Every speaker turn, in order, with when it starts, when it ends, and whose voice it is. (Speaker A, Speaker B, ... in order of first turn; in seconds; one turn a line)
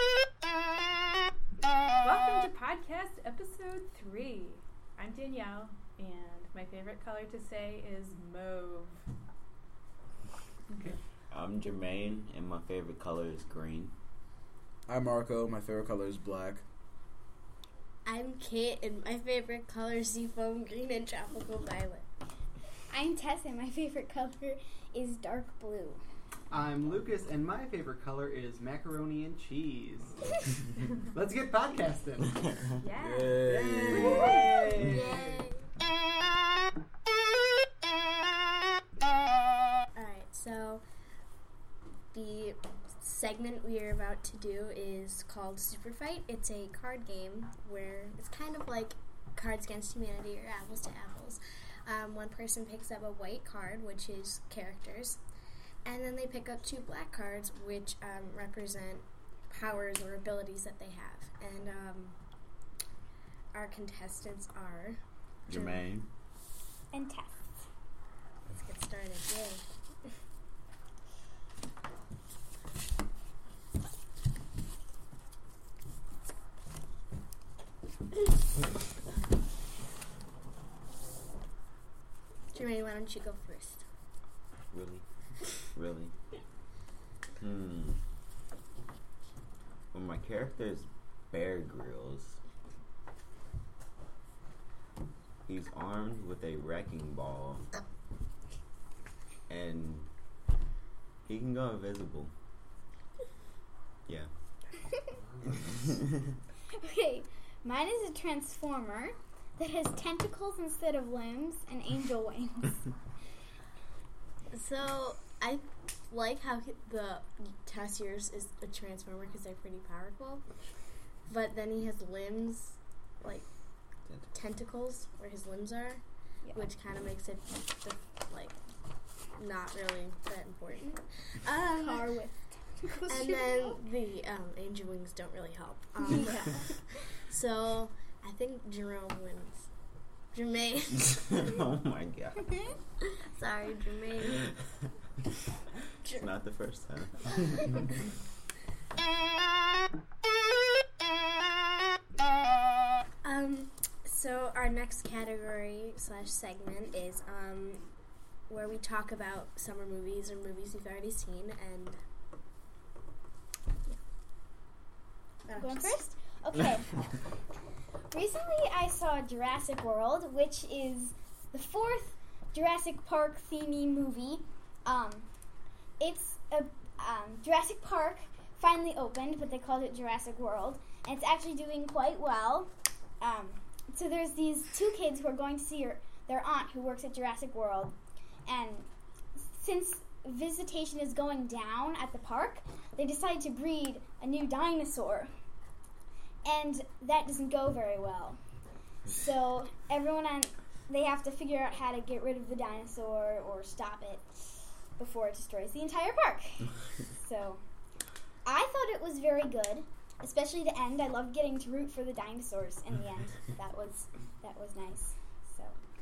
Speaker A: 2.0-9.0
Speaker B: 11.3-13.9
Speaker C: 14.9-16.6
Speaker D: 18.1-22.1
Speaker E: 22.9-26.0
Speaker F: 26.5-30.2
Speaker F: 31.0-32.4
Speaker A: 32.8-33.4
Speaker C: 33.0-34.4
Speaker F: 33.4-35.4
Speaker D: 34.1-35.6
Speaker D: 39.9-40.8
Speaker D: 42.1-55.2
Speaker D: 55.8-62.2
Speaker D: 63.5-65.0
Speaker B: 65.5-66.1
Speaker E: 66.9-67.4
Speaker D: 68.5-69.6
Speaker D: 82.5-83.8
Speaker B: 84.7-85.0
Speaker B: 85.7-86.1
Speaker B: 87.4-88.0
Speaker B: 89.9-92.4
Speaker B: 95.5-97.7
Speaker B: 99.5-100.1
Speaker B: 101.2-102.3
Speaker B: 105.5-106.1
Speaker E: 106.8-112.9
Speaker D: 114.5-120.4
Speaker D: 121.3-123.5
Speaker D: 124.3-126.0
Speaker E: 126.4-126.7
Speaker D: 126.5-128.6
Speaker D: 129.3-132.1
Speaker E: 131.8-133.8
Speaker D: 133.1-139.7
Speaker E: 136.0-136.7
Speaker D: 140.3-141.6
Speaker B: 141.1-142.7
Speaker E: 142.4-142.7
Speaker D: 143.2-144.5
Speaker B: 146.1-147.9
Speaker D: 153.2-157.8
Speaker D: 158.5-162.0
Speaker D: 165.4-166.0
Speaker E: 165.6-167.0
Speaker E: 168.1-175.3
Speaker E: 176.0-187.9
Speaker E: 188.4-195.3
Speaker E: 196.4-198.4
Speaker E: 199.1-207.6
Speaker E: 208.4-215.8